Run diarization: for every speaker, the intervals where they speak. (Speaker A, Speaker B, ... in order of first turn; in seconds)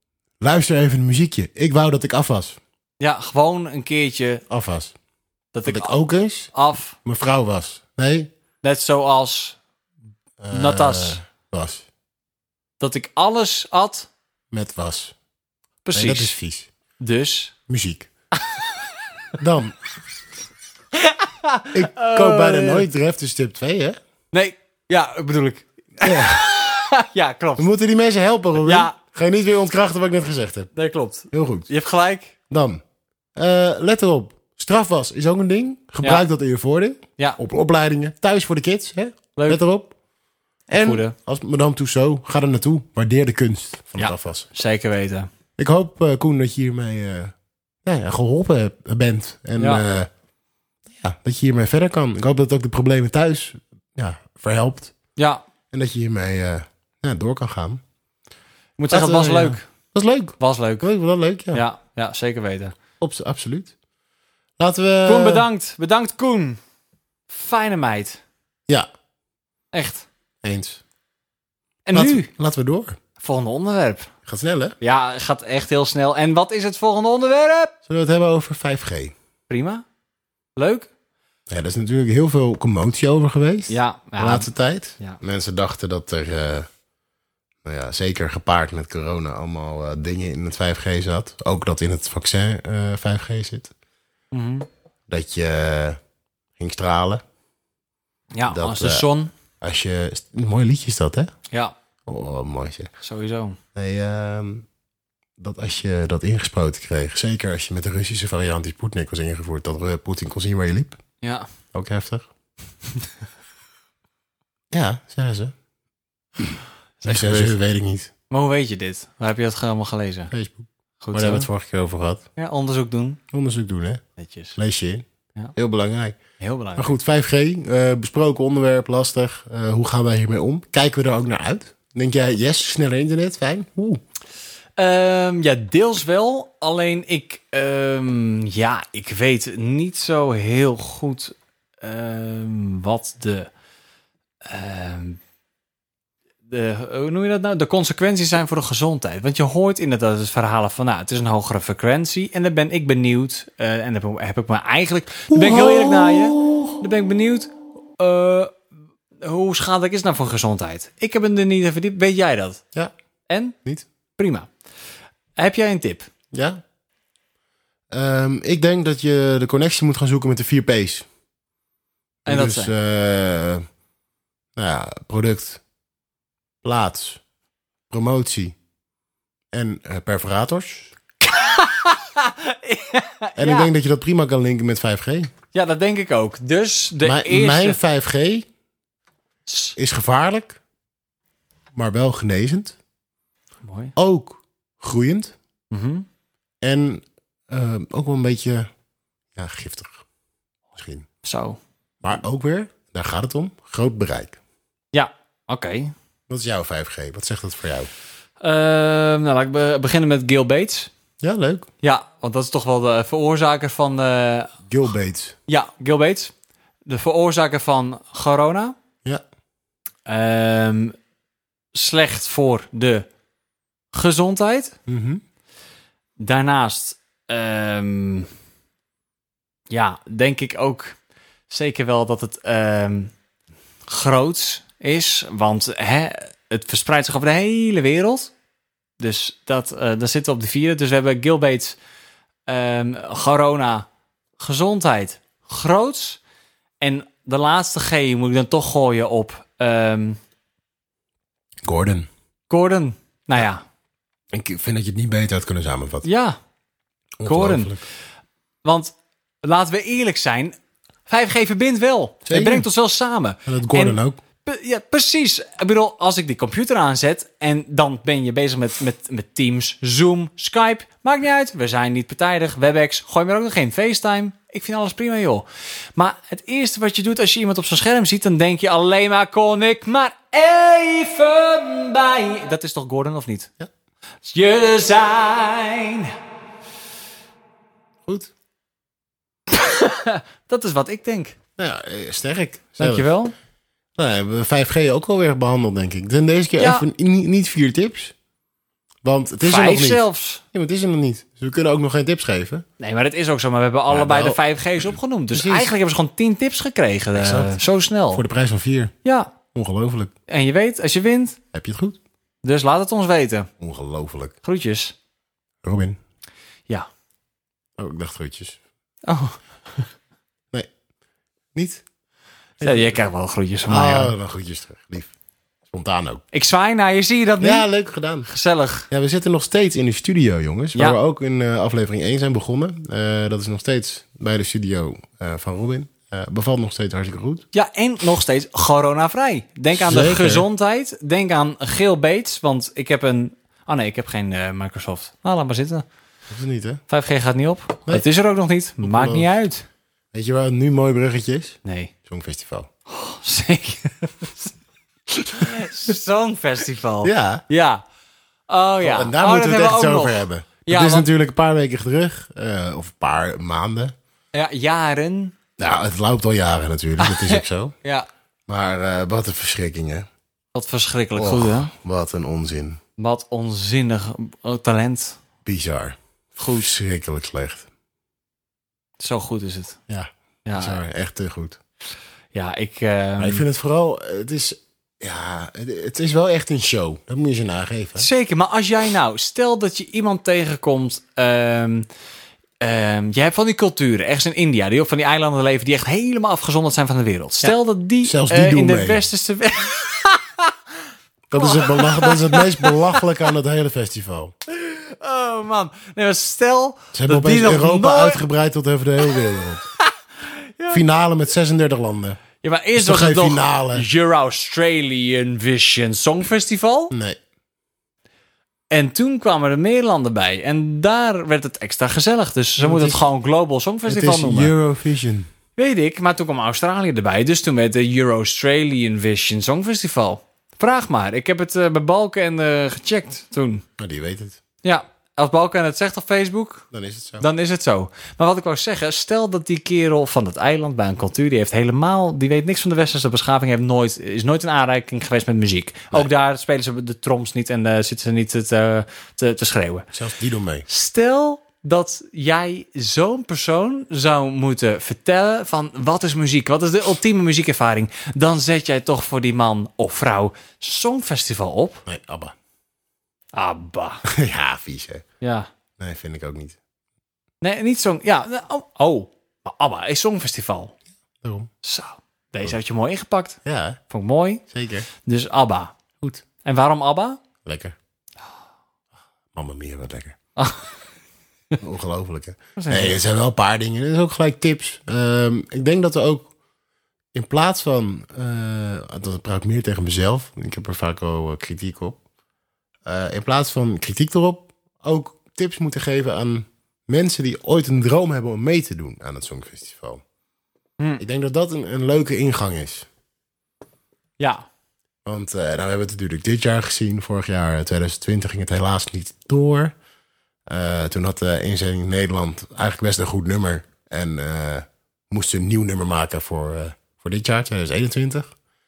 Speaker A: 0.4-2.6, 4.5-4.9, 5.7-8.3, 10.4-11.9, 14.5-15.2, 15.9-16.7, 17.7-18.1, 19.4-19.8, 21.7-24.0, 26.0-26.5, 27.6-30.7, 31.3-31.7, 32.5-32.8, 33.4-39.9, 40.7-44.5, 45.6-47.3, 47.9-50.1, 50.9-54.9, 55.7-57.8, 58.9-61.6, 63.0-63.7, 64.6-65.5, 70.4-70.8, 71.9-73.0, 74.3-74.8, 77.9-79.1, 81.5-86.7, 87.6-93.7, 95.1-96.0, 96.6-97.2, 98.5-99.1, 99.6-101.3, 102.1-102.9, 103.8-104.7, 105.4-111.0, 111.7-112.3, 114.7-115.5, 116.4-118.1, 120.3-122.2, 123.3-124.0, 124.6-125.0, 125.6-126.2, 126.8-134.0, 155.3-156.8, 166.3-166.6, 167.9-171.1, 172.3-173.7, 174.6-175.6, 176.6-177.2, 177.9-178.6, 179.5-180.9, 183.4-185.3, 187.0-188.5, 189.8-190.6, 191.8-192.8, 194.0-195.3, 196.6-198.7, 199.3-200.0, 200.8-201.1, 202.0-204.4, 206.3-207.9, 211.2-211.7, 214.7-215.4, 224.9-225.2, 251.6-252.1, 254.3-256.1, 257.2-257.8, 262.3-262.7, 263.5-264.2, 288.1-288.3, 291.6-293.1, 294.0-298.1, 299.0-300.0, 300.5-302.6, 303.9-304.4, 305.3-305.7, 307.1-307.6, 308.1-308.9, 309.5-310.1, 311.5-312.0, 313.6-314.4, 315.6-316.0, 317.8-318.6, 321.6-321.8, 322.6-323.0, 323.7-325.1, 325.7-326.2, 327.4-328.3, 328.9-337.5, 339.8-340.5, 346.3-346.8, 348.8-349.3, 350.1-352.7, 357.0-357.4, 358.8-363.9, 365.6-367.7, 368.5-370.1, 371.2-372.8, 375.4-377.7, 379.9-381.6, 383.2-388.1, 397.4-399.1, 401.3-404.3, 406.9-409.7, 410.7-412.2, 412.8-413.9, 416.9-417.2, 422.6-423.0, 423.9-425.3, 433.8-434.4, 436.7-437.3, 449.9-450.7, 461.9-462.3, 464.1-465.0, 465.8-466.6, 471.2-471.5, 473.4-473.8, 474.5-474.9, 477.4-477.8, 479.3-480.2, 481.6-486.3, 487.1-492.0, 492.9-500.0, 501.0-502.9, 505.1-509.8, 510.5-518.3
Speaker B: 3.0-4.4, 5.5-5.9, 6.5-7.0, 8.6-9.6, 10.5-11.2, 12.8-14.1, 15.8-16.4, 17.0-17.5, 18.4-18.7, 20.9-22.9, 24.3-27.7, 28.6-29.0, 30.8-32.3, 39.4-39.6, 40.8-41.1, 44.0-45.3, 49.6-49.8, 55.2-55.4, 58.8-59.7, 60.4-60.9, 61.5-62.7, 65.0-66.6, 67.3-68.2, 69.7-70.1, 71.9-72.3, 73.2-74.1, 74.8-77.7, 79.5-79.8, 80.6-80.9, 83.7-85.2, 94.3-94.7, 98.3-99.3, 103.0-103.6, 111.2-111.5, 117.0-117.6, 118.3-120.3, 121.0-121.5, 122.4-123.2, 124.2-124.6, 126.4-127.0, 134.8-143.5, 144.4-145.2, 146.5-158.6, 159.2-162.6, 163.3-163.6, 164.2-164.5, 165.4-166.1, 172.3-172.7, 181.2-183.7, 185.5-187.8, 189.5-189.8, 193.6-193.9, 195.7-196.1, 201.2-201.6, 204.9-205.9, 208.4-210.9, 211.8-214.5, 215.5-216.3, 216.9-218.8, 220.1-220.9, 221.7-223.1, 223.9-224.8, 226.2-228.3, 229.7-231.0, 231.5-233.1, 233.9-238.3, 239.0-241.8, 242.5-243.9, 244.4-246.2, 246.8-250.2, 252.5-253.6, 256.0-256.4, 257.2-257.7, 258.6-260.6, 261.1-283.5, 284.2-286.1, 289.5-291.4, 292.8-293.3, 296.6-296.9, 299.4-300.4, 302.8-308.2, 309.0-309.3, 310.3-311.4, 312.4-313.5, 314.4-314.9, 319.1-319.8, 322.6-324.1, 326.3-327.7, 328.3-328.9, 337.5-345.9, 346.9-349.6, 351.6-351.9, 352.9-354.5, 355.2-357.8, 358.5-361.1, 364.3-365.4, 367.0-368.1, 370.5-371.7, 373.0-375.2, 376.4-376.7, 379.0-379.8, 380.5-380.8, 382.3-383.4, 388.0-391.9, 392.6-400.5, 401.4-403.0, 404.5-408.2, 409.8-410.8, 412.4-416.9, 418.7-424.5, 425.6-433.6, 434.6-436.7, 437.2-449.9, 450.7-461.8, 463.3-464.1, 465.2-465.5, 467.4-470.8, 471.6-474.4, 475.0-475.8, 476.4-477.2, 480.4-480.7, 482.6-483.0, 504.2-504.4